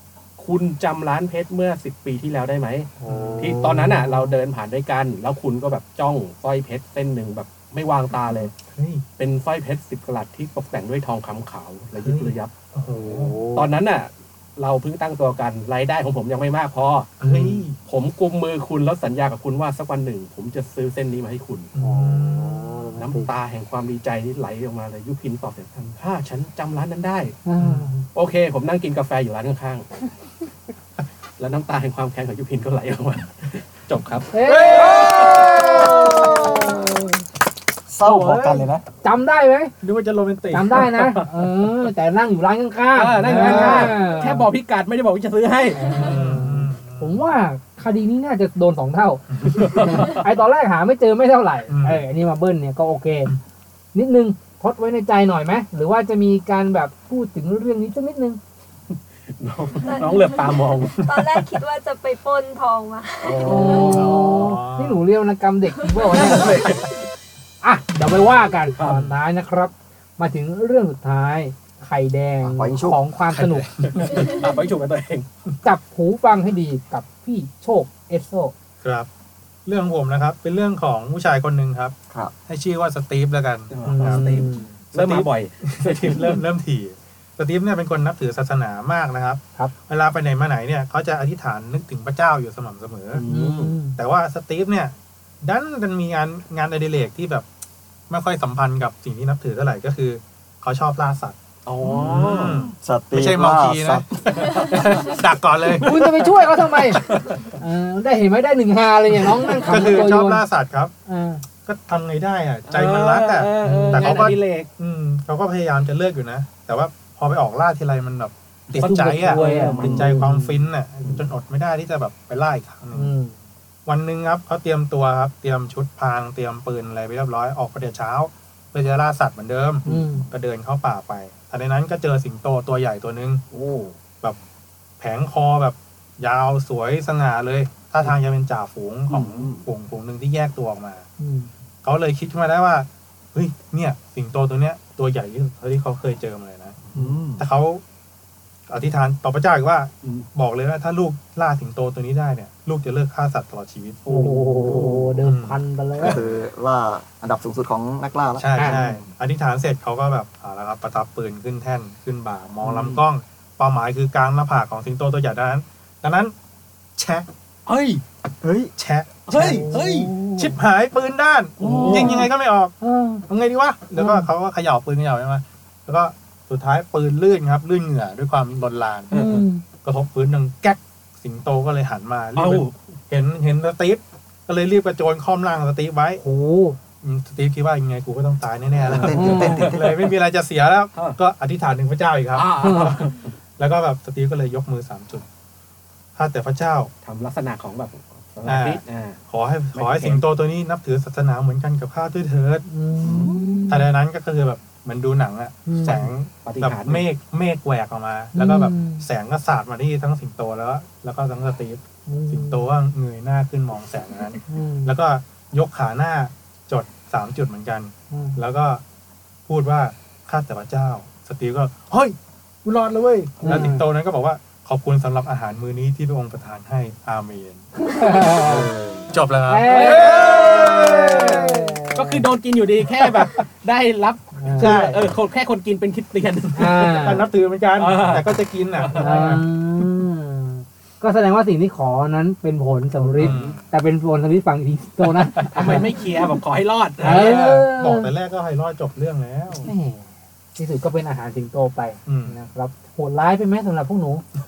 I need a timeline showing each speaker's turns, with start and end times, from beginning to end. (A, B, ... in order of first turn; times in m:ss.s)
0:00.4-0:08.5 A
0:03.0-0:04.1 B
0:03.0-0:03.8 C
0:08.7-0:09.0 B
0:09.2-0:12.5 A
0:12.0-0:13.4 B
0:12.9-0:13.6 C
0:13.5-0:21.7 A
0:17.2-0:17.8 B
0:21.7-0:23.0 B
0:21.8-0:23.3 C
0:23.0-0:27.4 A
0:27.4-0:28.0 C
0:27.6-0:27.9 B
0:28.1-0:29.8 A
0:31.4-0:35.9 A
0:34.3-0:37.0 C
0:34.4-0:35.5 B
0:35.2-0:37.0 D
0:37.9-0:38.7 D
0:38.0-0:38.8 A
0:39.0-0:39.7 C
0:39.8-0:40.8 B
0:40.5-0:44.4 C
0:40.7-0:41.7 A
0:42.9-0:45.9 A
0:43.2-0:44.0 B
0:45.8-0:53.3 C
0:45.9-0:47.2 B
0:49.3-0:49.9 B
0:49.4-0:50.2 A
0:51.7-0:52.0 B
0:53.9-0:58.4 C
0:58.9-1:01.1 A
0:59.9-1:00.2 E
1:01.0-1:01.5 B
1:01.0-1:04.0 E
1:03.2-1:04.2 A
1:03.4-1:06.7 C
1:03.8-1:05.0 B
1:06.1-1:06.9 A
1:07.6-1:13.7 C
1:08.7-1:09.0 A
1:12.4-1:13.0 D
1:13.3-1:14.3 B
1:13.8-1:15.3 A
1:15.6-1:18.5 C
1:18.8-1:19.1 B
1:19.6-1:21.9 B
1:22.5-1:33.2 B
1:23.7-1:26.4 A
1:23.8-1:24.7 C
1:33.1-1:33.8 A
1:33.3-1:34.0 C
1:33.9-1:37.4 B
1:38.1-1:45.9 B
1:41.6-1:42.7 A
1:42.7-1:44.5 D
1:44.5-1:45.2 A
1:45.8-1:47.0 C
1:45.8-1:47.5 A
1:47.6-1:50.4 C
1:49.6-1:50.9 B
1:51.1-1:51.4 C
1:51.6-2:03.1 B
1:52.6-1:54.7 A
1:53.6-1:54.1 C
1:58.7-2:00.2 A
1:58.7-2:00.7 C
1:59.8-2:00.1 D
2:02.9-2:03.3 C
2:03.8-2:13.4 B
2:09.8-2:10.2 A
2:09.8-2:10.3 C
2:13.5-2:13.9 A
2:15.0-2:21.0 B
2:19.1-2:19.5 A
2:21.2-2:21.5 C
2:21.8-2:27.8 B
2:26.9-2:27.4 D
2:28.7-2:36.4 B
2:34.1-2:36.2 C
2:34.3-2:35.1 A
2:36.0-2:39.1 D
2:38.4-2:46.3 B
2:38.6-2:38.8 C
2:42.6-2:43.0 A
2:47.0-2:47.3 B
2:47.6-2:48.0 A
2:48.4-2:48.7 D
2:48.8-2:49.7 B
2:49.2-2:50.1 A
2:49.4-2:50.6 C
2:50.4-2:52.7 B
2:51.6-2:52.3 A
2:51.7-2:52.2 C
2:52.8-2:53.2 C
2:53.3-2:59.1 B
2:54.0-2:54.3 C
2:59.1-2:59.4 A
2:59.1-2:59.6 C
2:59.8-3:06.2 B
3:02.4-3:02.7 A
3:06.2-3:06.8 C
3:07.0-3:13.1 B
3:08.8-3:10.0 D
3:09.1-3:09.7 C
3:12.3-3:13.3 A
3:12.6-3:13.0 C
3:13.6-3:15.2 B
3:16.2-3:16.9 B
3:17.0-3:19.2 A
3:18.4-3:22.6 B
3:19.7-3:20.2 A
3:22.7-3:23.9 C
3:23.0-3:23.4 A
3:23.0-3:23.3 D
3:23.7-3:38.8 B
3:25.6-3:26.0 C
3:25.8-3:27.1 A
3:28.3-3:29.1 C
3:32.1-3:32.6 C
3:34.5-3:34.9 C
3:38.1-3:38.4 C
3:39.4-3:47.6 B
3:43.4-3:43.8 C
3:47.8-3:48.6 C
3:48.4-3:51.8 B
3:48.4-3:49.1 D
3:49.5-3:52.2 C
3:49.7-3:50.9 A
3:51.9-3:57.1 A
3:54.4-3:54.9 C
3:54.6-3:55.1 B
3:56.5-3:57.3 C
3:56.8-3:59.4 B
3:57.7-3:59.4 A
3:59.0-4:06.0 C
4:03.0-4:03.5 A
4:03.2-4:03.6 B
4:05.5-4:07.4 A
4:07.0-4:08.1 C
4:07.0-4:09.7 B
4:09.6-4:14.2 C
4:12.1-4:12.4 B